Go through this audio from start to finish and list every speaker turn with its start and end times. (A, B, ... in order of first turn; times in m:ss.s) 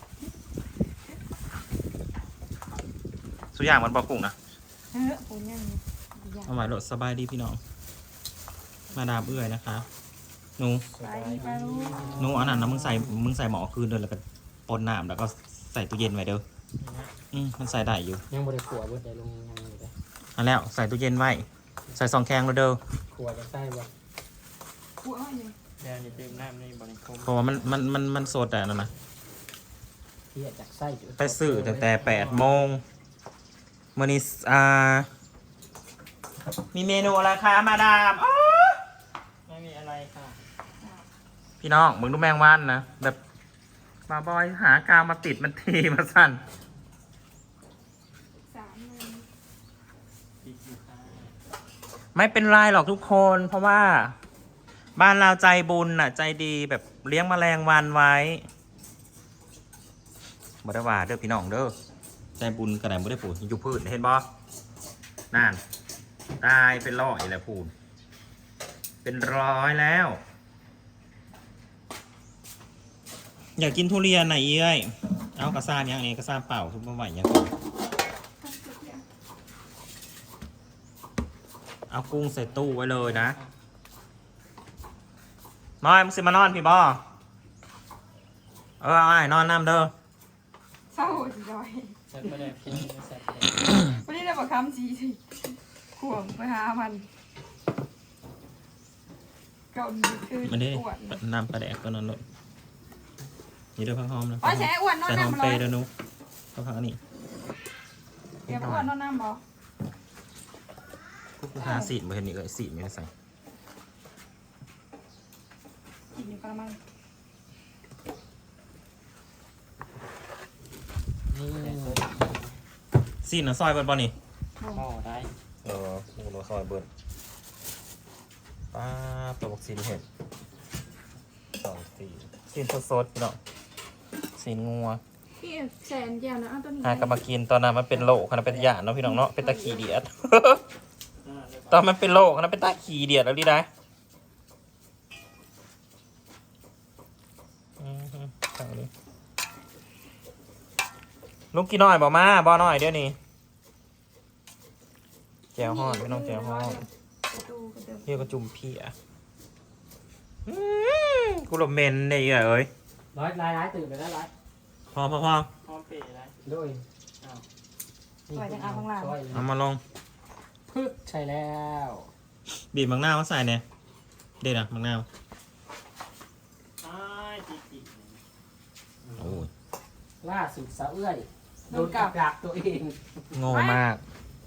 0:03.6-0:04.3 A
0:04.9-0:06.7 B
0:06.5-0:07.6 A
0:08.9-0:09.9 A
0:10.6-0:10.9 A
0:10.9-0:13.0 C
0:11.0-0:12.1 B
0:11.4-0:12.6 D
0:12.2-0:16.4 A
0:16.8-0:17.2 C
0:17.3-0:18.2 A
0:18.3-0:19.9 D
0:20.4-0:22.8 A
0:23.1-0:23.9 D
0:25.0-0:25.6 B
0:25.8-0:27.5 C
0:27.2-0:28.9 A
0:30.3-0:32.1 D
0:31.2-0:32.8 A
0:32.0-0:32.4 C
0:34.0-0:35.1 A
0:36.7-0:38.8 A
0:39.4-0:40.4 C
0:40.8-0:41.0 B
0:41.6-0:43.2 A
0:44.1-0:46.4 A
0:48.5-0:49.2 B
0:50.4-0:51.3 C
0:52.1-0:54.1 A
0:55.0-0:58.4 A
1:00.6-1:01.7 A
1:02.4-1:04.2 A
1:05.3-1:05.6 A
1:06.4-1:07.7 A
1:09.0-1:10.2 A
1:13.6-1:17.6 A
1:18.4-1:19.0 B
1:21.9-1:23.4 A
1:22.2-1:23.5 C
1:25.8-1:27.0 A
1:28.8-1:29.9 A
1:30.9-1:31.9 B
1:32.1-1:33.7 C
1:33.6-1:35.2 B
1:36.0-1:37.1 B
1:39.7-1:41.2 B
1:40.4-1:42.2 A
1:43.8-1:45.9 A
1:44.4-1:45.7 B
1:46.6-1:47.0 A
1:48.4-1:48.9 A
1:48.5-1:49.4 B
1:51.4-1:53.1 A
1:51.6-1:51.9 B
1:56.1-1:56.8 B
2:01.3-2:02.4 D
2:01.6-2:02.2 C
2:03.2-2:04.2 A
2:04.6-2:04.8 B
2:04.7-2:05.3 C
2:05.6-2:06.9 A
2:08.7-2:10.0 A
2:11.6-2:13.4 A
2:14.4-2:15.0 A
2:15.4-2:17.2 B
2:16.8-2:20.6 A
2:19.0-2:19.9 B
2:21.2-2:21.9 C
2:21.7-2:23.7 A
2:27.8-2:28.9 A
2:31.5-2:33.2 A
2:35.6-2:36.8 A
2:35.6-2:38.3 B
2:38.1-2:38.9 A
2:40.4-2:42.7 A
2:43.1-2:44.3 D
2:44.9-2:45.5 A
2:45.6-2:46.4 C
2:46.4-2:46.8 D
2:48.3-2:49.5 D
2:48.3-2:49.2 B
2:49.3-2:49.8 A
2:50.7-2:52.1 D
2:52.5-2:53.6 A
2:54.4-2:55.1 A
2:56.8-2:58.2 C
2:59.0-2:59.4 D
2:59.2-2:59.5 A
3:00.2-3:03.2 D
3:01.7-3:02.2 B
3:03.3-3:04.0 A
3:03.4-3:03.8 B